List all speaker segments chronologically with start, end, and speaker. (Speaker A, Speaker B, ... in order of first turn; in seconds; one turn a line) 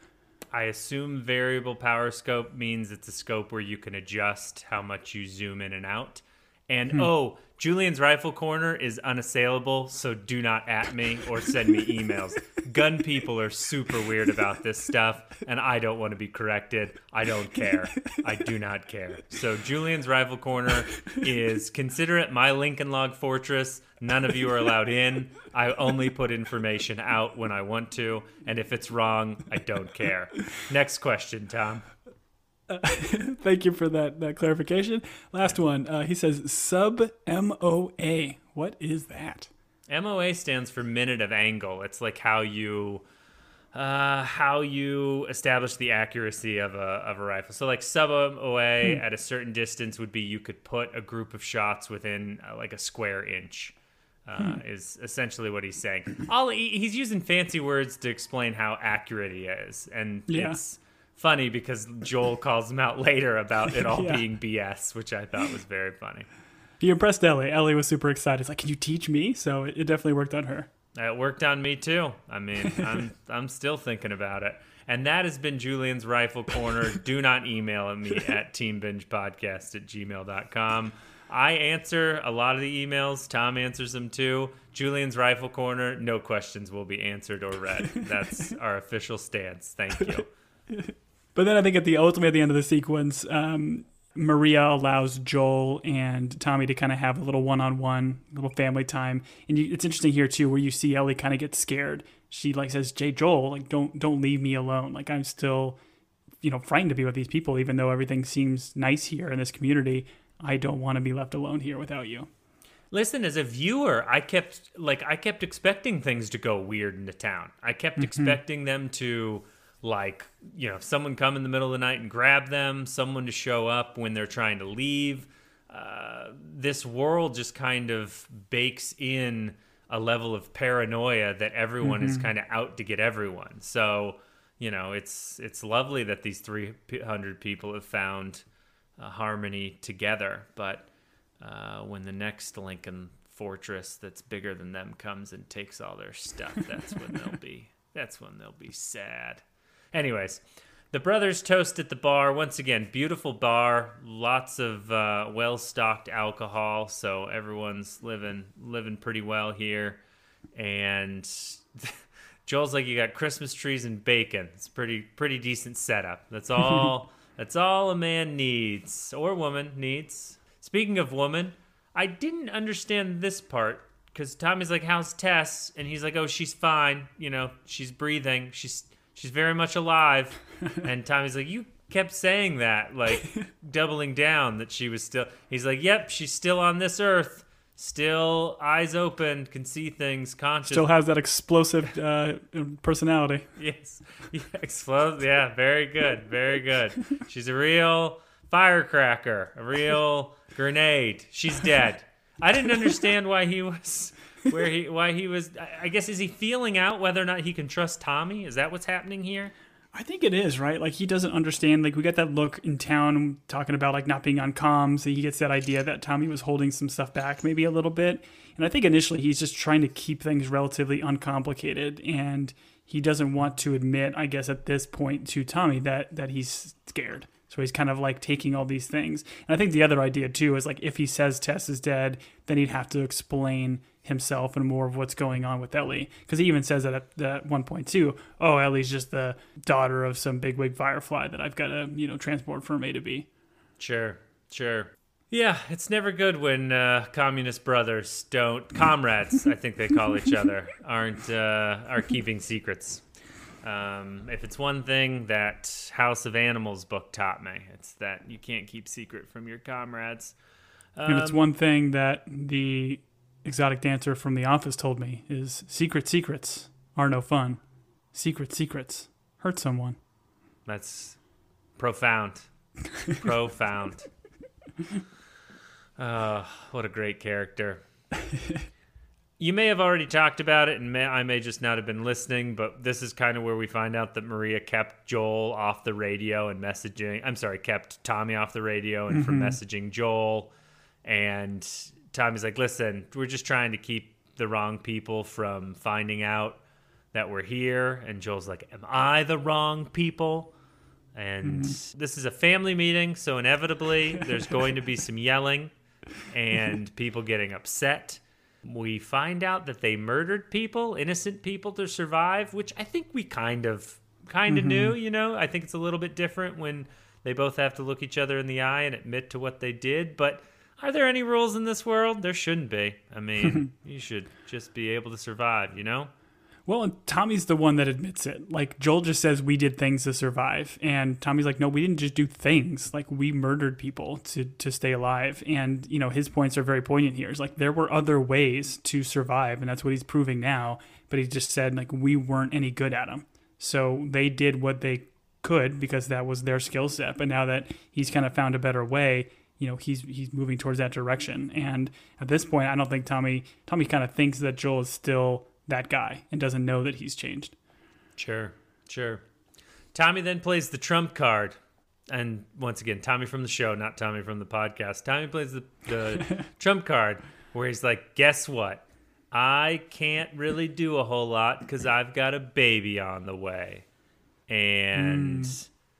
Speaker A: 0.5-31.8
Speaker B: 32.7-39.5
Speaker A: 39.9-43.0
Speaker A: 43.7-66.2
Speaker B: 60.3-60.6
Speaker B: 63.9-64.2
Speaker B: 66.8-70.7
Speaker A: 70.9-90.3
Speaker B: 90.7-105.8
Speaker B: 106.4-112.3
Speaker A: 112.9-138.4
Speaker B: 118.0-118.4
Speaker B: 131.8-132.2
Speaker A: 139.0-140.9
Speaker A: 141.4-160.0
Speaker A: 160.6-190.9
Speaker B: 190.7-193.5
Speaker A: 193.6-209.5
Speaker B: 209.9-243.3
Speaker A: 243.8-253.0
Speaker A: 253.6-260.3
Speaker A: 261.0-261.4
Speaker B: 261.1-267.6
Speaker B: 268.1-270.0
Speaker A: 270.6-271.2
Speaker A: 271.8-272.5
Speaker A: 273.0-274.1
Speaker A: 276.0-277.8
Speaker A: 279.4-290.5
Speaker B: 289.1-289.6
Speaker A: 291.0-296.6
Speaker A: 297.1-300.5
Speaker A: 301.1-305.7
Speaker B: 301.4-301.8
Speaker A: 306.3-326.1
Speaker B: 314.5-314.9
Speaker B: 326.6-357.5
Speaker A: 358.2-359.2
Speaker A: 359.9-361.6
Speaker A: 362.1-373.9
Speaker A: 374.5-375.7
Speaker B: 374.9-375.5